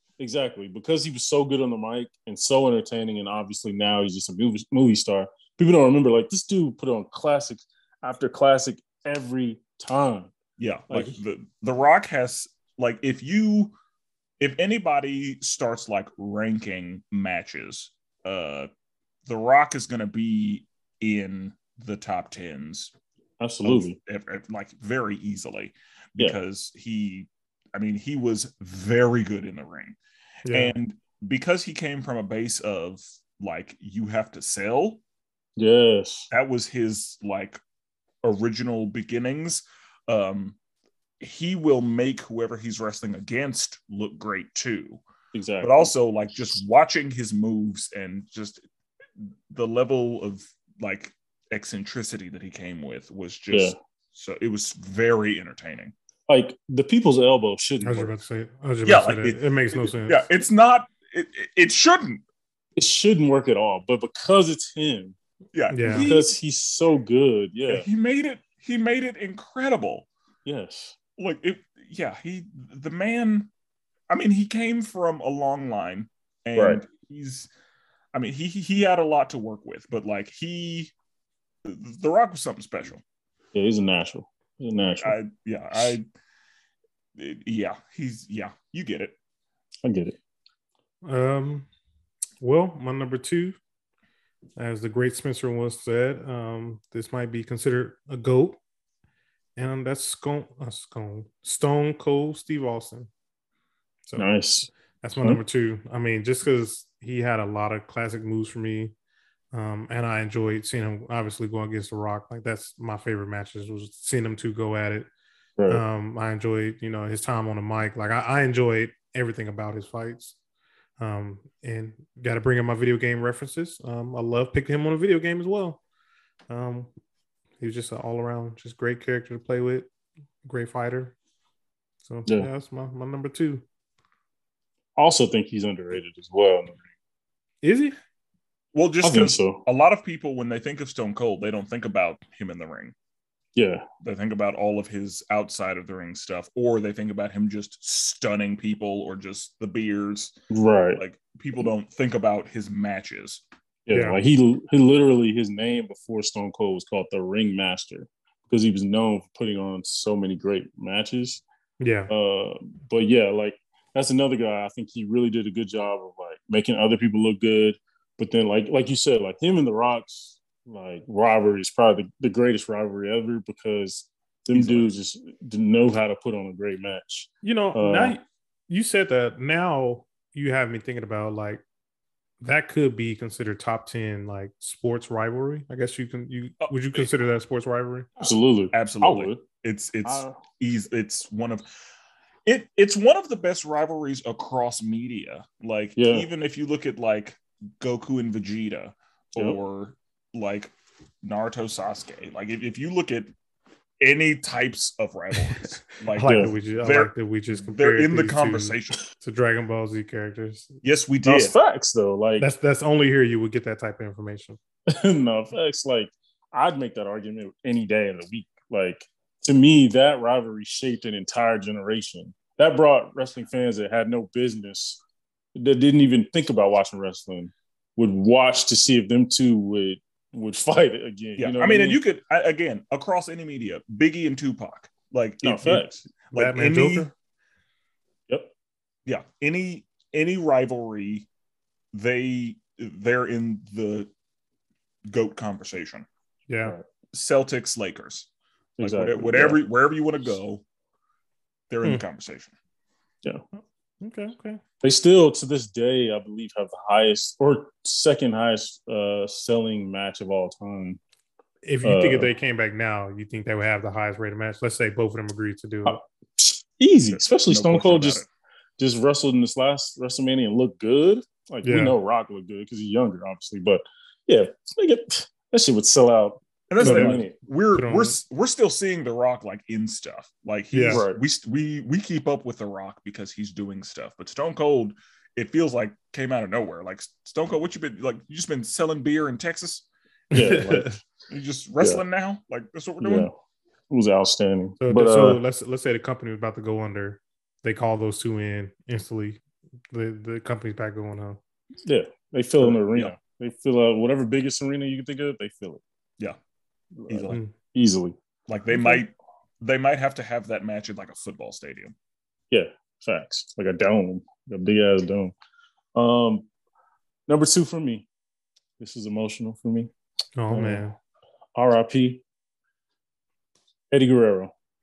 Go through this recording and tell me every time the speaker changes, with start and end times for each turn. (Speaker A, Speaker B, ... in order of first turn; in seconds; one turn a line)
Speaker A: 0.2-10.3
Speaker B: 10.6-13.7
Speaker A: 10.9-11.2
Speaker B: 14.4-18.7
Speaker B: 19.2-22.9
Speaker A: 23.4-24.0
Speaker B: 23.6-30.0
Speaker C: 30.5-30.7
Speaker B: 30.5-35.0
Speaker A: 35.6-36.3
Speaker B: 36.3-37.6
Speaker B: 38.2-40.6
Speaker B: 41.2-45.0
Speaker A: 45.3-45.9
Speaker B: 45.6-48.6
Speaker B: 49.2-55.9
Speaker A: 53.5-53.8
Speaker A: 56.3-58.1
Speaker C: 57.8-60.2
Speaker B: 58.8-62.2
Speaker A: 62.8-65.2
Speaker B: 65.5-66.3
Speaker C: 65.7-66.1
Speaker A: 65.8-67.8
Speaker B: 67.7-70.1
Speaker A: 70.5-71.0
Speaker B: 71.2-73.5
Speaker B: 74.1-77.5
Speaker A: 76.5-76.8
Speaker B: 78.1-80.9
Speaker B: 81.6-83.0
Speaker A: 83.5-85.2
Speaker B: 85.0-86.0
Speaker B: 87.2-89.2
Speaker A: 89.8-90.2
Speaker C: 91.0-91.7
Speaker C: 92.4-93.6
Speaker C: 94.6-98.6
Speaker C: 99.5-103.1
Speaker A: 104.2-105.4
Speaker C: 105.0-108.9
Speaker C: 109.5-115.1
Speaker A: 115.6-115.8
Speaker C: 115.7-120.3
Speaker C: 121.0-125.8
Speaker C: 126.5-126.9
Speaker C: 127.6-129.9
Speaker C: 130.4-131.2
Speaker C: 132.0-133.6
Speaker A: 135.0-136.8
Speaker C: 137.6-138.0
Speaker B: 138.7-142.9
Speaker A: 139.0-139.6
Speaker A: 143.6-143.8
Speaker B: 144.0-150.3
Speaker A: 150.5-151.0
Speaker B: 150.9-153.4
Speaker A: 153.9-161.4
Speaker C: 153.9-154.2
Speaker C: 161.8-162.1
Speaker A: 162.1-178.2
Speaker B: 174.5-174.9
Speaker C: 177.4-181.6
Speaker C: 182.4-188.1
Speaker B: 186.6-187.1
Speaker A: 188.2-189.4
Speaker B: 188.7-191.7
Speaker A: 190.0-190.3
Speaker B: 192.4-200.7
Speaker A: 196.0-196.3
Speaker B: 201.2-203.3
Speaker B: 204.0-207.1
Speaker C: 206.1-210.8
Speaker A: 206.2-206.5
Speaker B: 207.7-209.0
Speaker B: 210.8-211.5
Speaker A: 211.2-212.5
Speaker C: 212.4-214.6
Speaker A: 214.9-225.0
Speaker A: 225.6-232.0
Speaker B: 231.4-237.1
Speaker A: 235.4-236.0
Speaker C: 236.3-237.1
Speaker B: 239.1-241.3
Speaker B: 241.9-244.1
Speaker B: 245.1-246.1
Speaker C: 246.5-246.8
Speaker B: 247.1-248.3
Speaker A: 248.8-249.6
Speaker B: 248.8-250.6
Speaker B: 251.7-252.5
Speaker C: 254.0-254.6
Speaker A: 254.8-261.0
Speaker C: 261.6-266.0
Speaker A: 261.8-262.3
Speaker A: 265.9-268.2
Speaker B: 267.1-268.2
Speaker A: 268.8-277.3
Speaker C: 271.6-271.9
Speaker B: 276.7-289.9
Speaker C: 276.8-277.2
Speaker C: 277.8-278.2
Speaker C: 280.7-281.0
Speaker A: 280.9-281.2
Speaker C: 290.3-290.9
Speaker A: 290.3-291.0
Speaker B: 291.3-293.3
Speaker A: 293.0-293.3
Speaker A: 293.9-295.4
Speaker C: 294.8-301.4
Speaker A: 301.9-305.8
Speaker B: 302.6-303.1
Speaker A: 307.0-308.1
Speaker B: 307.1-307.4
Speaker B: 308.5-311.9
Speaker A: 312.5-315.3
Speaker A: 315.9-316.5
Speaker A: 317.3-318.1
Speaker A: 318.8-319.9
Speaker C: 320.4-320.9
Speaker A: 320.5-320.8
Speaker A: 321.5-322.2
Speaker A: 323.9-324.5